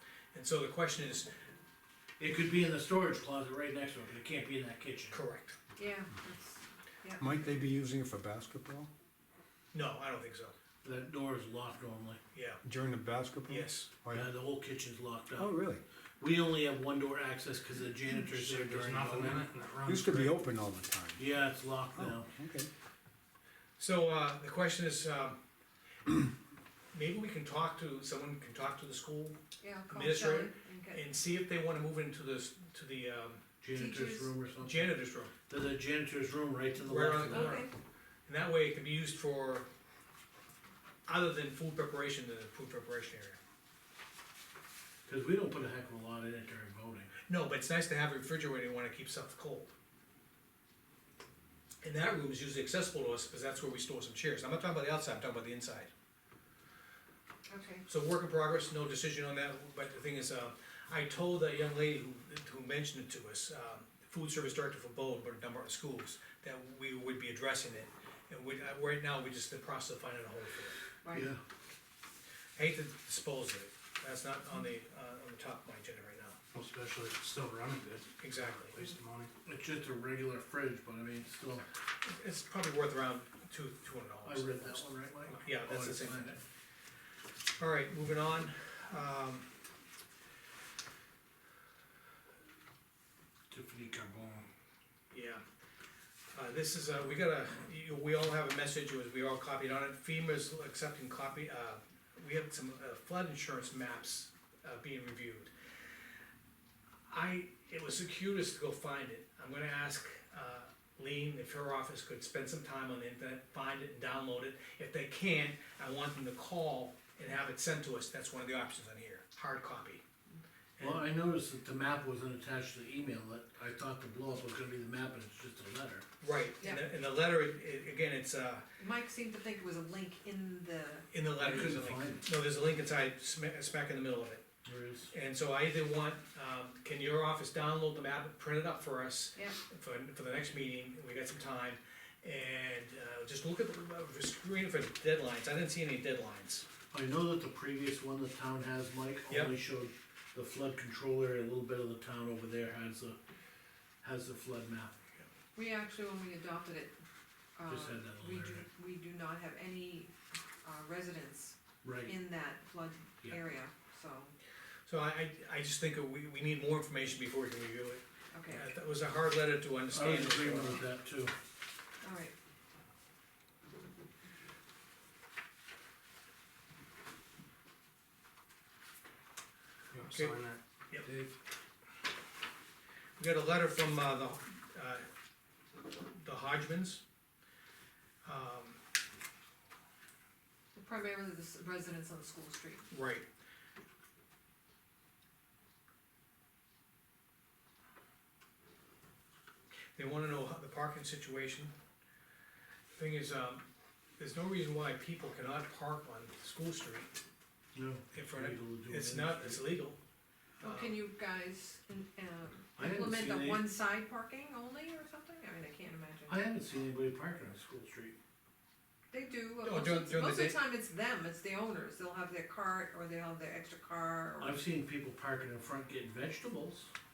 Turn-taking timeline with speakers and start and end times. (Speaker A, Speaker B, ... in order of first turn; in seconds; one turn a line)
Speaker A: 0.3-1.3
Speaker B: 2.2-5.2
Speaker A: 5.1-5.6
Speaker C: 5.8-7.5
Speaker D: 7.2-8.9
Speaker A: 9.7-10.5
Speaker B: 10.8-12.2
Speaker A: 12.3-12.6
Speaker D: 12.6-14.2
Speaker A: 13.5-13.9
Speaker B: 14.0-15.5
Speaker D: 15.3-15.8
Speaker B: 16.2-19.4
Speaker E: 18.2-20.4
Speaker D: 19.8-21.2
Speaker B: 21.1-22.3
Speaker D: 22.0-22.7
Speaker A: 23.8-25.4
Speaker A: 26.9-33.4
Speaker C: 29.6-31.0
Speaker B: 33.6-37.6
Speaker C: 33.7-34.3
Speaker A: 34.6-35.3
Speaker A: 36.8-37.7
Speaker C: 37.2-37.7
Speaker A: 38.2-39.7
Speaker A: 41.1-43.4
Speaker B: 45.1-47.1
Speaker A: 47.3-49.7
Speaker A: 51.8-55.9
Speaker C: 57.5-57.8
Speaker A: 57.9-70.8
Speaker C: 71.0-71.3
Speaker B: 71.1-71.4
Speaker A: 72.5-76.4
Speaker E: 76.5-79.3
Speaker A: 78.2-78.8
Speaker B: 79.4-81.6
Speaker A: 82.0-86.3
Speaker B: 84.2-86.4
Speaker A: 87.6-89.5
Speaker B: 93.5-94.5
Speaker A: 95.1-95.4
Speaker A: 96.3-105.5
Speaker A: 107.1-120.0
Speaker A: 120.8-121.0
Speaker B: 120.8-126.0
Speaker A: 126.2-128.6
Speaker C: 128.8-131.1
Speaker A: 131.1-134.4
Speaker B: 131.4-132.3
Speaker B: 134.6-135.1
Speaker A: 135.1-146.7
Speaker B: 146.9-153.2
Speaker A: 149.3-149.5
Speaker B: 154.0-155.0
Speaker C: 155.6-157.0
Speaker C: 157.6-164.3
Speaker B: 157.7-158.7
Speaker B: 161.8-162.1
Speaker A: 164.9-170.8
Speaker C: 168.3-168.7
Speaker B: 169.9-171.3
Speaker C: 172.0-172.3
Speaker E: 179.9-181.3
Speaker A: 180.1-180.3
Speaker A: 183.2-185.0
Speaker A: 186.1-187.0
Speaker A: 188.2-188.8
Speaker C: 190.8-192.9
Speaker A: 192.9-193.2
Speaker A: 199.9-201.7
Speaker A: 202.9-203.6
Speaker A: 204.2-207.1
Speaker B: 207.7-209.6
Speaker A: 208.1-210.0
Speaker A: 210.6-211.0
Speaker C: 210.6-216.4
Speaker B: 212.8-213.7
Speaker B: 216.3-218.2
Speaker C: 219.1-224.6
Speaker A: 219.6-220.6
Speaker B: 224.4-226.9